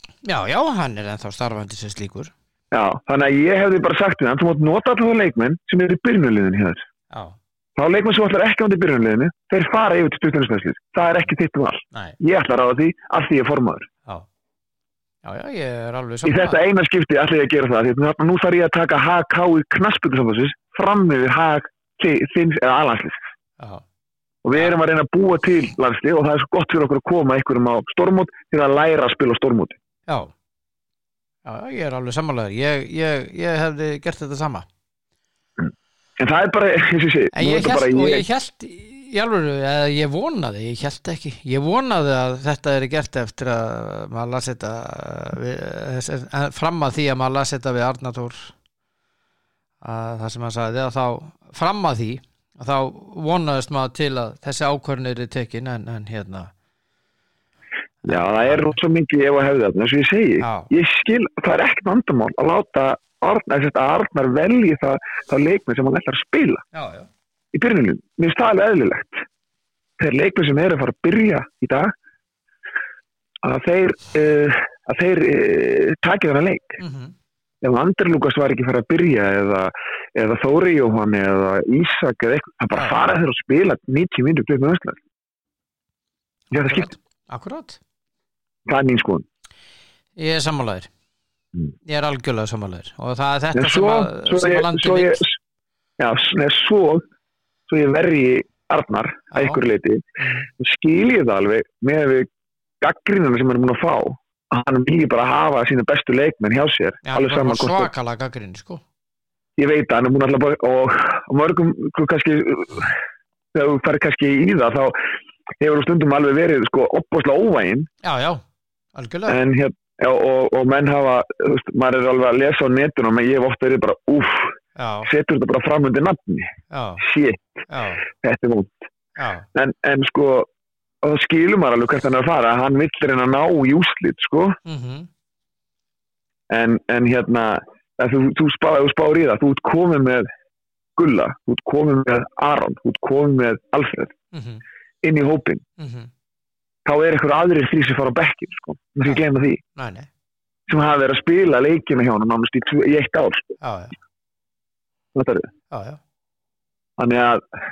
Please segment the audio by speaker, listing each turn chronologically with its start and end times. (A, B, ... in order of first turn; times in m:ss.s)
0:00.2-0:02.3 A
0:02.7-0:06.8 B
0:07.1-0:07.4 A
0:07.8-0:13.9 B
0:15.2-0:16.6 A
0:16.2-0:23.3 B
0:24.4-0:29.8 B
0:31.4-0:34.7 A
0:36.2-0:38.2 B
0:37.3-0:48.5 A
0:49.8-0:56.5 A
0:58.0-0:58.8 A
0:58.1-1:06.6 B
1:00.4-1:00.7 A
1:06.7-1:07.1 A
1:07.5-1:09.2 B
1:10.0-1:11.9 B
1:13.4-1:16.8 B
1:16.8-1:17.1 A
1:17.6-1:25.0 B
1:26.5-1:26.9 B
1:26.6-1:27.8 A
1:28.7-1:29.2 B
1:30.2-1:30.9 A
1:31.9-1:35.2 A
1:33.6-1:35.4 B
1:36.0-1:37.0 B
1:37.7-1:40.0 B
1:39.3-1:39.6 A
1:40.2-1:40.5 A
1:40.6-1:42.3 B
1:42.8-1:47.9 B
1:47.1-1:48.8 A
1:49.6-1:53.0 B
1:53.5-1:55.0 B
1:55.6-1:57.9 B
1:58.0-1:58.4 A
1:59.0-1:59.4 A
1:59.3-2:08.9 B
2:04.8-2:05.1 A
2:06.7-2:07.0 A
2:07.7-2:08.0 A
2:09.2-2:09.5 A
2:09.5-2:10.5 B
2:11.0-2:14.6 B
2:14.6-2:15.1 A
2:16.5-2:20.3 B
2:21.0-2:24.1 B
2:24.3-2:24.6 A
2:25.0-2:25.6 B
2:25.8-2:26.1 A
2:26.8-2:29.6 B
2:29.8-2:30.1 A
2:30.7-2:33.6 B
2:33.6-2:34.0 A
2:35.1-2:35.5 B
2:35.7-2:36.0 A
2:37.0-2:37.4 B